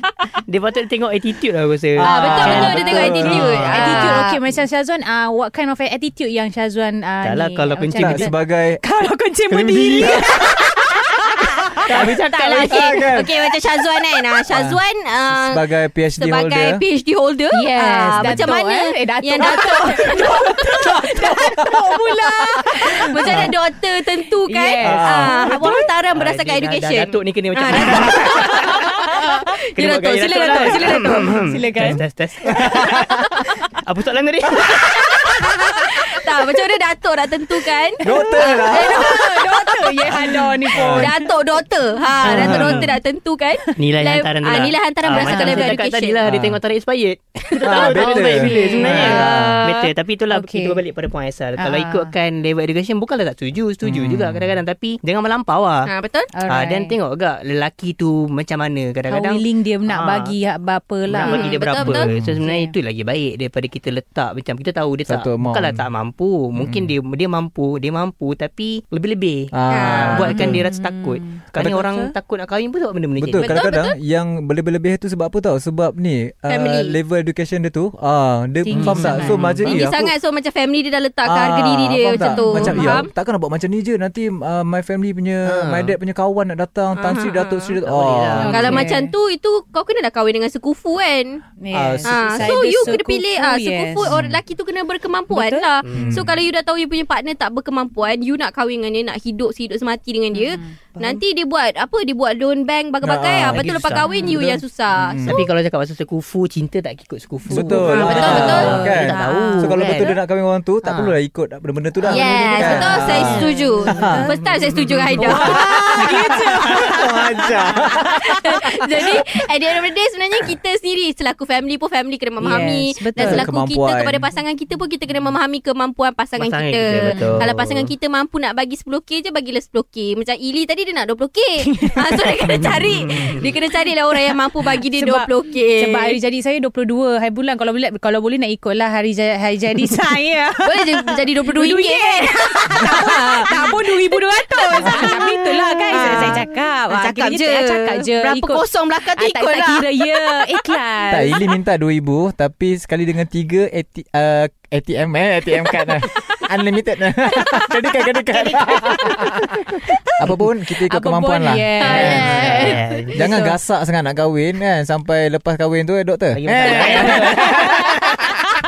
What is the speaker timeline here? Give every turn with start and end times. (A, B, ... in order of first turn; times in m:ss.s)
0:00.5-0:04.1 A
0:02.0-0:04.4 B
0:02.1-0:03.7 C
0:02.1-0:12.9 D
0:07.2-0:08.3 A
0:08.0-0:08.8 C
0:09.5-0:10.5 C
0:11.8-0:13.3 C
0:11.9-0:12.7 A
0:12.3-0:20.9 B
0:14.5-0:16.8 C
0:17.5-0:23.4 D
0:18.2-0:18.5 C
0:20.8-0:23.6 C
0:22.6-0:31.3 B
0:24.4-0:25.2 D
0:24.8-0:25.6 C
0:25.4-0:28.8 A
0:28.7-0:29.5 D
0:29.8-0:33.0 A
0:30.4-0:32.0 D
0:32.5-0:33.0 C
0:33.0-0:33.4 B
0:33.7-0:35.0 A
0:35.1-0:40.1 B
0:38.0-0:39.1 C
0:38.0-0:41.2 D
0:40.1-0:41.1 C
0:40.7-0:46.2 B
0:42.2-0:43.0 A
0:42.3-0:42.9 C
0:43.8-0:55.9 A
0:45.2-0:45.8 D
0:46.2-0:46.6 C
0:47.6-0:49.8 B
0:47.6-0:49.6 C
0:48.6-0:49.2 D
0:50.3-0:50.8 D
0:51.6-0:52.1 D
0:53.8-0:54.6 C
0:55.8-0:56.3 B
0:56.3-0:57.0 D
0:56.5-1:00.3 A
0:59.1-1:01.6 D
1:01.1-1:13.5 A
1:01.2-1:02.1 B
1:01.8-1:02.4 C
1:02.4-1:02.7 D
1:05.1-1:05.9 C
1:06.6-1:06.9 C
1:09.5-1:10.6 C
1:09.7-1:10.4 B
1:10.1-1:12.1 D
1:11.5-1:11.9 C
1:13.2-1:20.1 C
1:13.4-1:14.0 B
1:16.5-1:17.0 B
1:18.6-1:19.5 D
1:18.7-1:19.8 A
1:19.6-1:23.1 B
1:21.2-1:28.8 C
1:22.2-1:23.0 D
1:25.4-1:25.9 A
1:27.0-1:27.8 B
1:27.8-1:28.8 A
1:28.4-1:29.1 D
1:28.5-1:31.4 B
1:31.6-1:34.2 D
1:31.7-1:33.0 C
1:32.0-1:45.5 B
1:34.0-1:34.4 C
1:35.3-1:35.6 D
1:35.8-1:36.3 A
1:35.9-1:36.3 C
1:40.3-1:41.2 D
1:43.0-1:45.4 C
1:43.5-1:44.5 A
1:45.2-1:50.2 A
1:47.5-1:50.1 D
1:47.5-1:54.3 C
1:47.7-1:48.8 B
1:50.8-1:51.2 A
1:52.1-1:56.8 B
1:52.1-1:55.6 A
1:52.2-1:54.4 D
1:55.2-1:58.0 D
1:55.2-1:58.2 C
1:57.7-2:16.2 B
2:02.4-2:03.5 D
2:03.2-2:04.3 C
2:06.4-2:07.9 A
2:07.1-2:07.4 D
2:11.8-2:12.3 D
2:12.5-2:13.3 A
2:14.2-2:31.4 D
2:20.6-2:30.8 B
2:31.1-2:48.1 C
2:40.9-2:43.5 D
2:41.8-2:43.0 B
2:41.9-2:43.2 A
2:46.3-2:48.1 A